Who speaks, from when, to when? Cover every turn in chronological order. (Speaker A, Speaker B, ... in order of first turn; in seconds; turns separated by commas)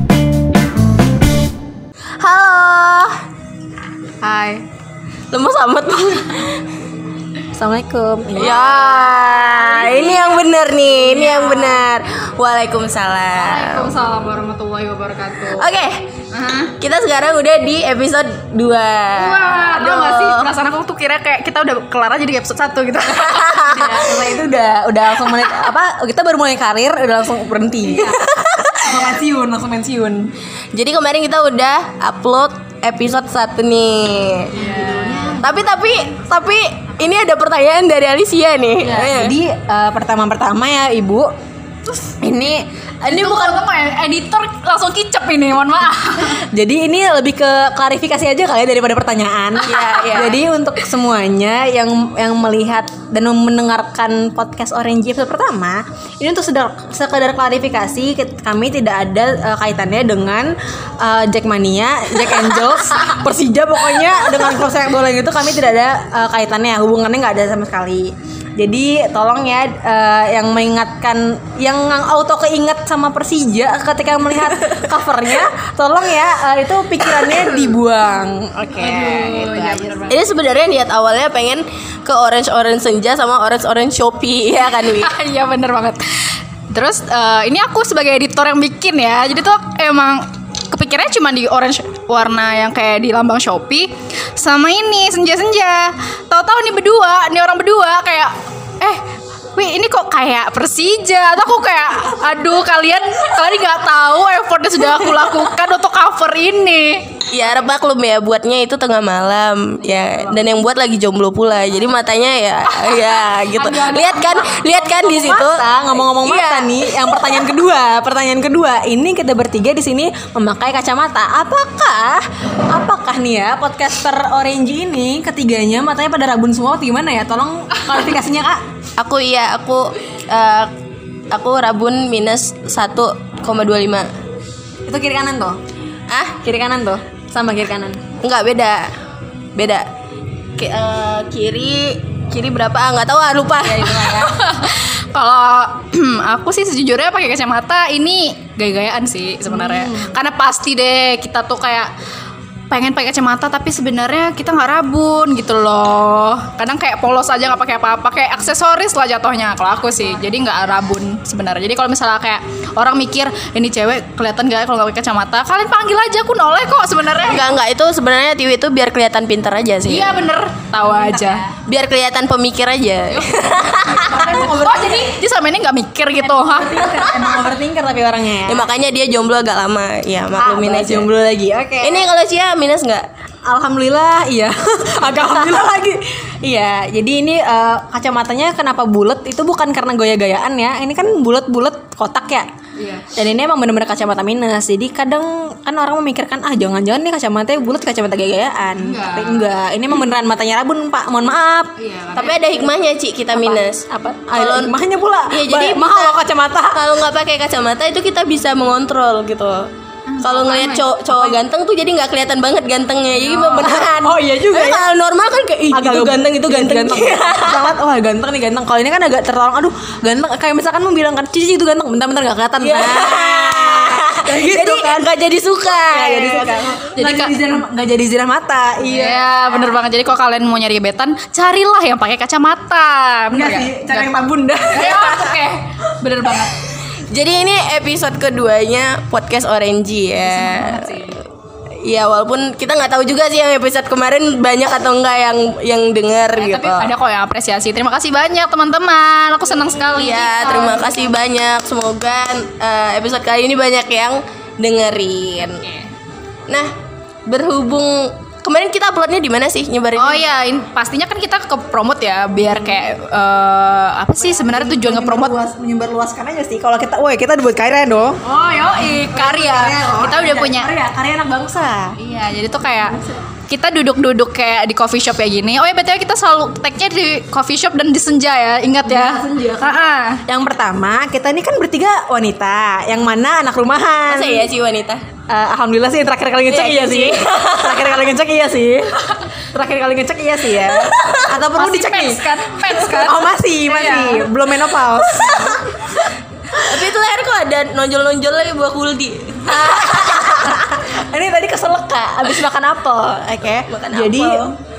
Speaker A: 2.2-3.2, Speaker B: 4.2-4.6, Speaker A: 5.3-6.6, Speaker C: 7.5-8.7, Speaker A: 8.3-13.9, Speaker B: 8.4-11.8, Speaker B: 13.3-15.8, Speaker A: 15.5-16.1, Speaker B: 16.3-16.7, Speaker A: 16.8-20.5, Speaker B: 19.1-24.2, Speaker A: 23.1-23.9, Speaker C: 23.7-28.2, Speaker A: 28.1-28.9, Speaker C: 28.8-30.3, Speaker A: 30.7-34.6, Speaker B: 34.5-35.5, Speaker C: 34.6-35.4, Speaker A: 35.4-39.4, Speaker C: 38.8-41.3, Speaker C: 42.0-43.5, Speaker B: 43.0-46.4, Speaker C: 46.4-80.1, Speaker A: 49.6-50.4, Speaker B: 78.7-80.2, Speaker A: 80.1-85.1, Speaker B: 84.7-99.0, Speaker B: 99.5-107.1, Speaker A: 107.3-117.1, Speaker B: 109.8-110.5, Speaker B: 112.7-115.4, Speaker C: 115.0-128.6, Speaker A: 129.0-130.7, Speaker A: 131.3-134.1, Speaker C: 134.9-135.6, Speaker A: 136.1-136.4, Speaker C: 136.4-138.0, Speaker A: 138.2-138.9, Speaker A: 139.6-139.9, Speaker A: 140.6-144.3, Speaker C: 143.7-144.3, Speaker B: 144.0-151.9, Speaker C: 149.5-150.1, Speaker B: 152.7-167.5, Speaker A: 167.2-170.2, Speaker B: 169.9-171.4, Speaker C: 170.8-171.5, Speaker A: 171.7-174.3, Speaker B: 173.1-177.4, Speaker C: 173.9-175.2, Speaker C: 176.2-178.7, Speaker A: 178.5-181.1, Speaker C: 180.3-182.1, Speaker A: 181.8-183.1, Speaker C: 183.4-192.5, Speaker B: 192.8-193.1, Speaker C: 193.1-201.7, Speaker B: 198.8-199.5, Speaker B: 201.8-202.7, Speaker A: 202.1-206.2, Speaker C: 203.4-206.8, Speaker A: 206.7-209.7, Speaker B: 210.1-211.3, Speaker A: 210.2-217.7, Speaker B: 213.1-213.8, Speaker C: 213.6-214.9, Speaker C: 215.7-225.1, Speaker A: 222.6-226.9, Speaker C: 225.8-229.7, Speaker B: 227.0-227.4, Speaker B: 228.8-234.1, Speaker C: 233.3-235.4, Speaker B: 234.7-236.6, Speaker A: 237.1-241.1, Speaker B: 240.2-241.2, Speaker A: 241.8-246.9, Speaker B: 246.3-251.1, Speaker A: 249.9-255.6, Speaker B: 255.5-255.9, Speaker A: 257.2-260.3, Speaker B: 260.0-265.4, Speaker C: 264.1-268.2, Speaker B: 268.2-270.7, Speaker C: 268.7-272.0, Speaker B: 272.0-280.2, Speaker C: 278.9-284.5, Speaker A: 284.1-285.0, Speaker C: 285.3-289.0, Speaker A: 286.5-288.0, Speaker C: 289.5-292.2, Speaker A: 290.8-291.3, Speaker B: 291.3-294.3, Speaker C: 292.9-295.8, Speaker A: 295.0-295.6, Speaker A: 296.5-300.6, Speaker C: 299.4-304.5, Speaker A: 303.7-304.5